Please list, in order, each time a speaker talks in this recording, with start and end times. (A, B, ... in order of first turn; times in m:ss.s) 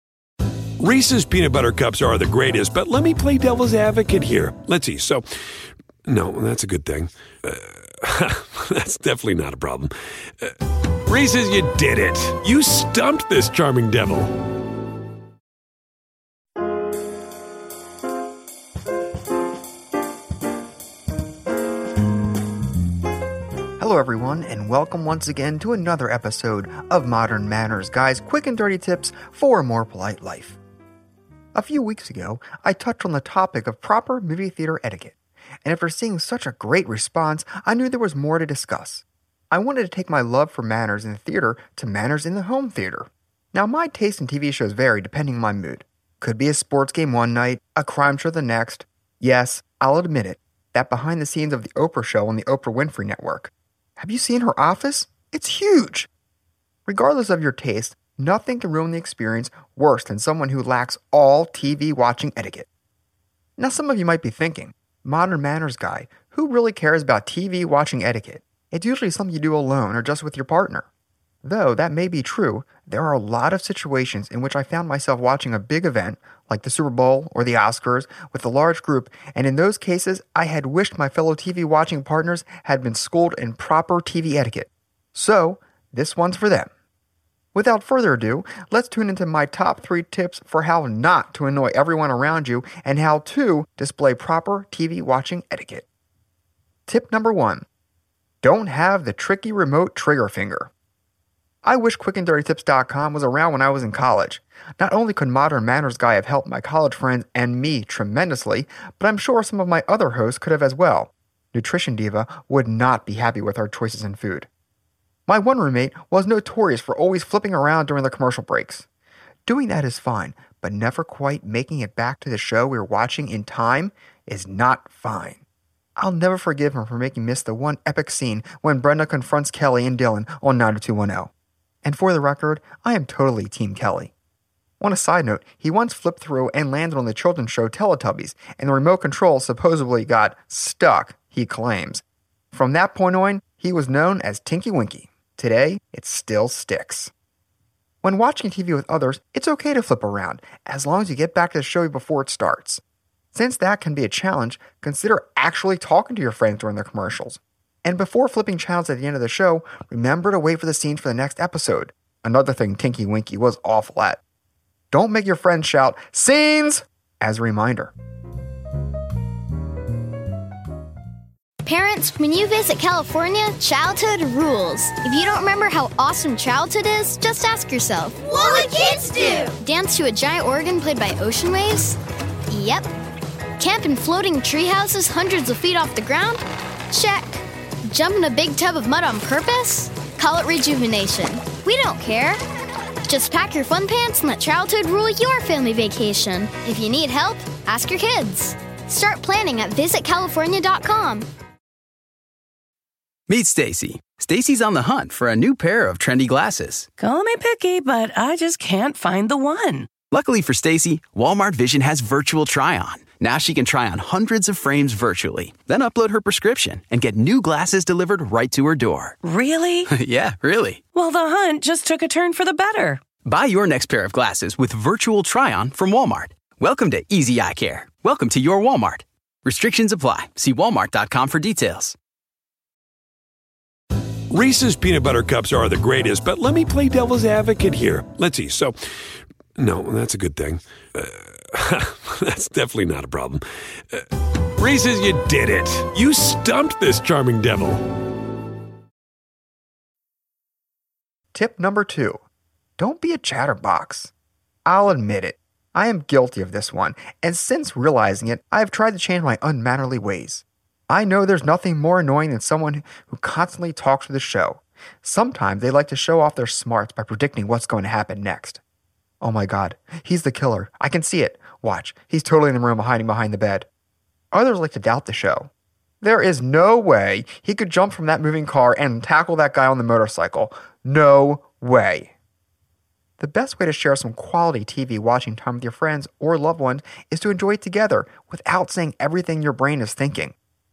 0:00.8-0:05.2 A
0:06.1-0:10.5 A
0:11.1-0:14.3 A
0:23.8-0:30.6 B
0:31.6-0:56.1 B
0:56.9-1:02.7 B
1:03.6-1:10.9 B
1:11.4-1:26.7 B
1:27.5-1:35.9 B
1:36.9-1:37.7 B
1:38.4-1:40.7 B
1:41.6-1:54.5 B
1:55.3-1:58.9 B
1:59.5-2:05.4 B
2:06.0-2:11.3 B
2:11.8-2:14.1 B
2:14.8-2:27.1 B
2:28.0-2:32.8 B
2:33.3-2:44.2 B
2:44.9-2:47.9 B
2:51.6-3:02.0 C
3:02.5-3:02.9 C
3:03.6-3:12.4 C
3:13.1-3:21.3 C
3:23.3-3:26.9 D
3:27.0-3:29.9 E
3:30.1-3:39.2 D
3:39.2-3:39.9 E
3:39.9-3:40.8 D
3:40.9-3:43.0 E
3:43.2-3:52.0 D
3:54.3-3:58.7 A
3:59.6-4:04.0 A
4:04.6-4:07.8 A
4:11.3-4:12.2 B
4:12.8-4:14.1 B
4:14.7-4:28.6 B
4:29.2-4:33.7 B
4:34.3-4:42.1 B
4:43.2-4:50.4 B